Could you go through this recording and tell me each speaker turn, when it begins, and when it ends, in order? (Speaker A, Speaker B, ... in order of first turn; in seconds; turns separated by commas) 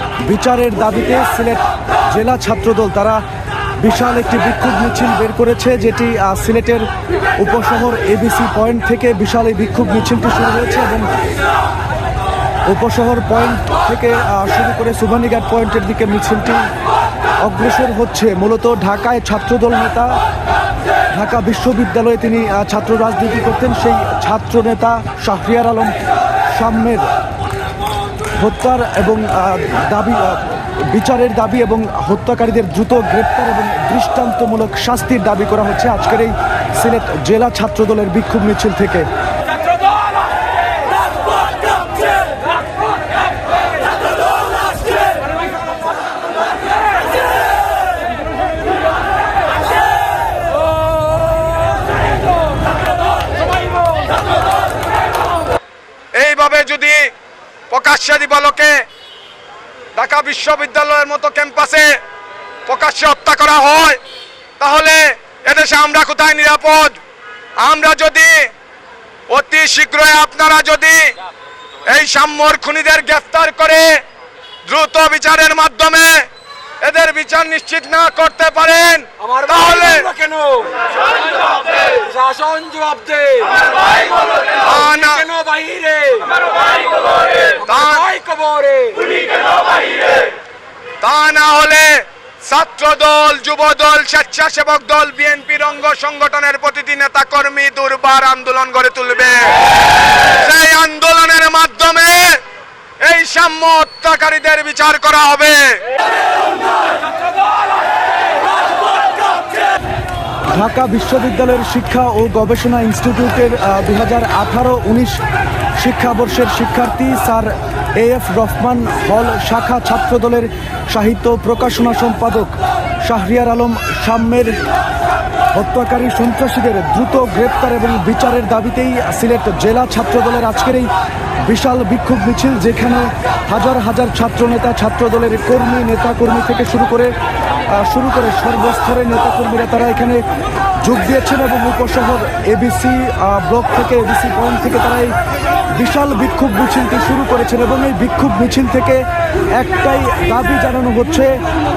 Speaker A: 0.2-3.2, Speaker A: 3.8-6.8, Speaker A: 7.4-11.1, Speaker A: 12.7-16.7, Speaker A: 17.4-20.1, Speaker A: 21.1-25.9, Speaker A: 26.6-27.1, Speaker A: 28.4-39.1, Speaker B: 56.2-57.0, Speaker B: 57.7-58.7, Speaker B: 60.0-61.9, Speaker B: 62.7-64.0, Speaker B: 64.6-67.0, Speaker B: 67.6-68.5, Speaker B: 69.3-71.0, Speaker B: 71.9-73.9, Speaker B: 74.7-76.3, Speaker B: 76.8-80.1, Speaker C: 79.2-80.8, Speaker C: 81.6-83.7, Speaker C: 84.4-86.5, Speaker B: 84.6-85.2, Speaker C: 87.4-89.3, Speaker B: 87.7-88.0, Speaker B: 91.0-91.9, Speaker B: 92.5-99.5, Speaker B: 100.4-102.4, Speaker B: 103.0-105.8, Speaker A: 110.5-115.2, Speaker A: 115.8-124.5, Speaker A: 125.5-130.9, Speaker A: 131.4-137.1, Speaker A: 137.8-140.2, Speaker A: 140.8-145.1, Speaker A: 145.7-149.1, Speaker A: 149.6-151.4